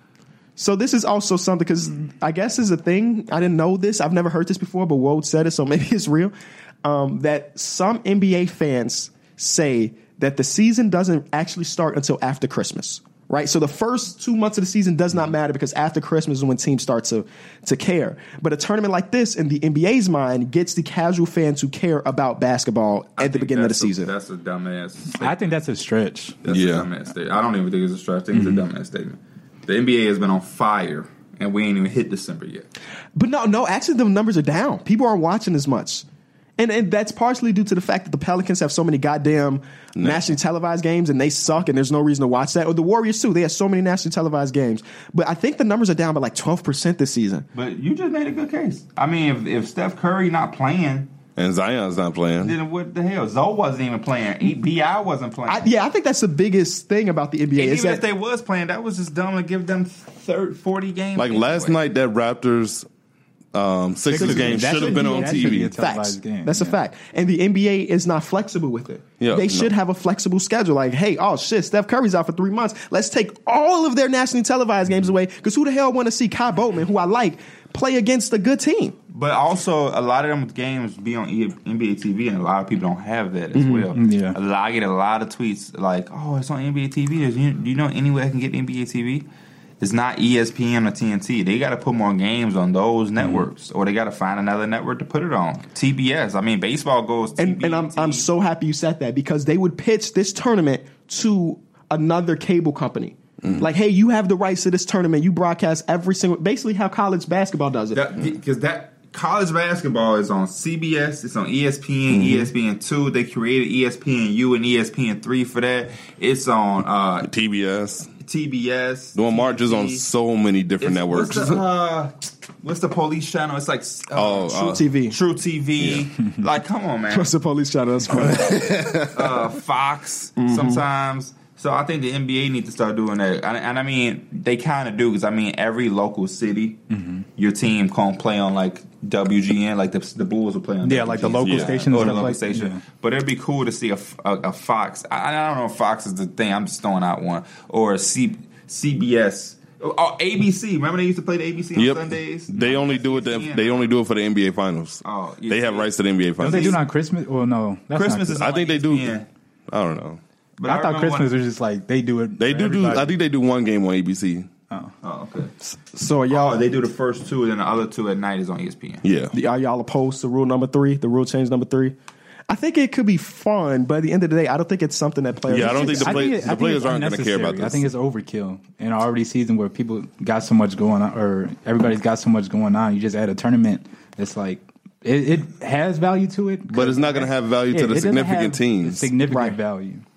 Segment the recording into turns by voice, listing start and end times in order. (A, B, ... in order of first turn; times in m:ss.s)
0:00.6-0:24.1 A
0:23.2-0:25.5 B
0:25.1-0:26.4 C
0:26.4-0:32.7 B
0:26.5-0:26.9 D
0:28.3-0:28.6 C
0:33.1-0:36.0 A
0:36.6-0:47.4 A
0:40.0-0:40.3 D
0:47.5-0:51.1 B
0:51.4-0:52.5 D
0:52.4-0:55.7 B
0:55.5-0:58.0 A
0:57.6-1:01.8 B
1:01.2-1:02.9 D
1:03.5-1:05.7 D
1:04.1-1:06.8 C
1:04.1-1:19.0 A
1:09.2-1:09.7 D
1:19.1-1:29.2 B
1:23.5-1:23.9 A
1:23.9-1:24.4 C
1:29.8-1:38.2 B
1:37.4-1:48.0 A
1:47.9-1:57.3 B
1:52.1-1:52.5 A
1:57.2-1:58.1 D
1:58.2-2:00.0 B
1:59.1-2:01.6 D
2:00.8-2:07.3 B
2:04.1-2:04.8 D
2:04.5-2:05.2 A
2:05.8-2:06.1 D
2:07.1-2:09.1 A
2:08.3-2:09.1 D
2:09.0-2:16.8 B
2:10.4-2:10.8 A
2:16.9-2:17.2 C
2:17.4-2:33.9 B
2:20.8-2:22.8 C
2:21.4-2:22.1 D
2:31.7-2:36.8 D
2:35.0-2:35.9 B
2:36.4-2:36.8 B
2:36.4-2:38.4 C
2:37.9-2:39.2 B
2:38.4-2:39.1 D
2:39.7-2:40.2 D
2:40.6-2:41.3 B
2:40.6-2:43.1 C
2:42.4-2:44.5 D
2:45.0-2:45.5 B
2:45.9-2:46.6 A
2:46.3-2:49.0 B
2:49.0-2:49.3 D
2:49.3-2:51.9 A
2:52.5-2:56.4 A
2:55.5-2:57.9 D
2:55.5-3:10.0 C
3:06.7-3:09.1 D
3:09.3-3:09.6 A